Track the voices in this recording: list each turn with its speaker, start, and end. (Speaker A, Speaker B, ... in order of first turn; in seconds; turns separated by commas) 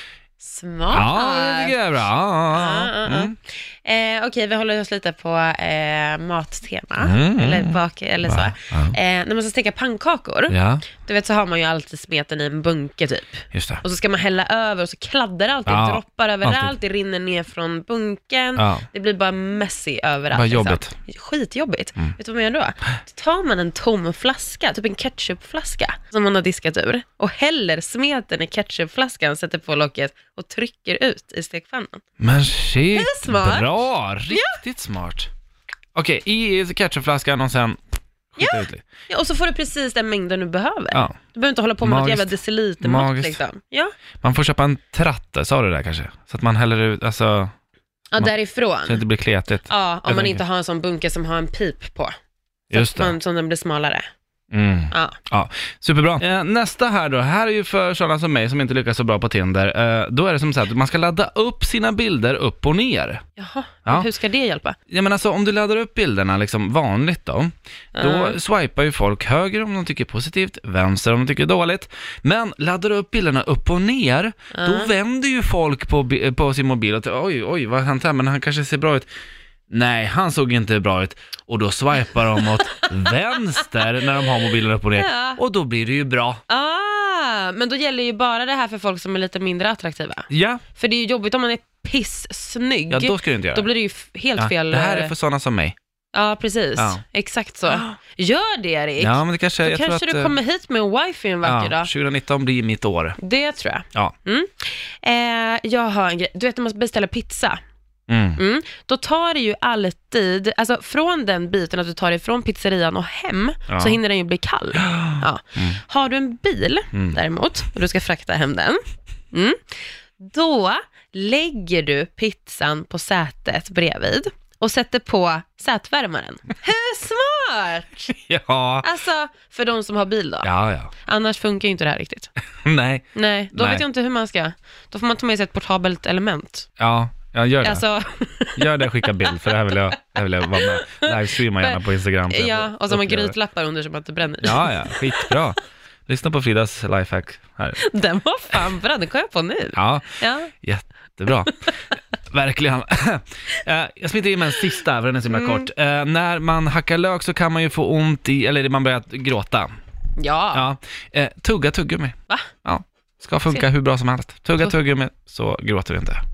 Speaker A: 0.4-1.8, Speaker B: 0.9-3.4, Speaker A: 2.5-32.0, Speaker B: 7.0-9.0, Speaker B: 10.5-10.9, Speaker B: 13.5-13.8, Speaker B: 15.7-16.8, Speaker B: 18.6-18.9, Speaker B: 20.3-20.9, Speaker B: 32.2-35.3, Speaker A: 32.9-34.6, Speaker B: 36.0-37.8, Speaker B: 38.4-38.9, Speaker A: 38.4-43.9, Speaker B: 40.9-41.2, Speaker B: 41.8-43.4, Speaker B: 44.2-47.5, Speaker A: 48.1-49.0, Speaker B: 48.9-50.4, Speaker A: 49.7-52.1, Speaker B: 52.7-53.1, Speaker A: 52.7-54.1, Speaker B: 54.5-63.2, Speaker A: 54.9-55.2, Speaker A: 63.4-64.8, Speaker B: 64.9-79.1, Speaker A: 68.0-68.4, Speaker A: 74.5-74.9, Speaker B: 79.7-86.4, Speaker A: 82.4-83.1, Speaker A: 85.0-85.4, Speaker A: 86.5-95.1, Speaker B: 90.3-90.6, Speaker B: 92.9-93.7, Speaker B: 94.4-95.8, Speaker A: 96.1-101.9, Speaker B: 96.8-97.0, Speaker B: 97.7-98.0, Speaker B: 99.0-100.4, Speaker B: 101.4-103.2, Speaker A: 103.2-107.6, Speaker B: 108.1-108.4, Speaker A: 108.4-118.8, Speaker B: 113.7-114.0, Speaker B: 114.8-115.8, Speaker B: 116.9-117.2, Speaker A: 119.3-128.2, Speaker B: 128.2-128.9, Speaker A: 128.8-130.5, Speaker B: 130.4-130.9, Speaker A: 131.0-132.3, Speaker B: 132.7-133.8, Speaker A: 133.1-136.7, Speaker B: 136.8-137.8, Speaker A: 137.6-139.8, Speaker B: 138.6-143.4, Speaker A: 140.6-145.4, Speaker B: 144.4-147.8, Speaker A: 147.8-150.5, Speaker B: 149.7-151.7, Speaker B: 152.3-159.7, Speaker A: 155.3-155.7, Speaker A: 160.2-160.7, Speaker B: 160.5-166.2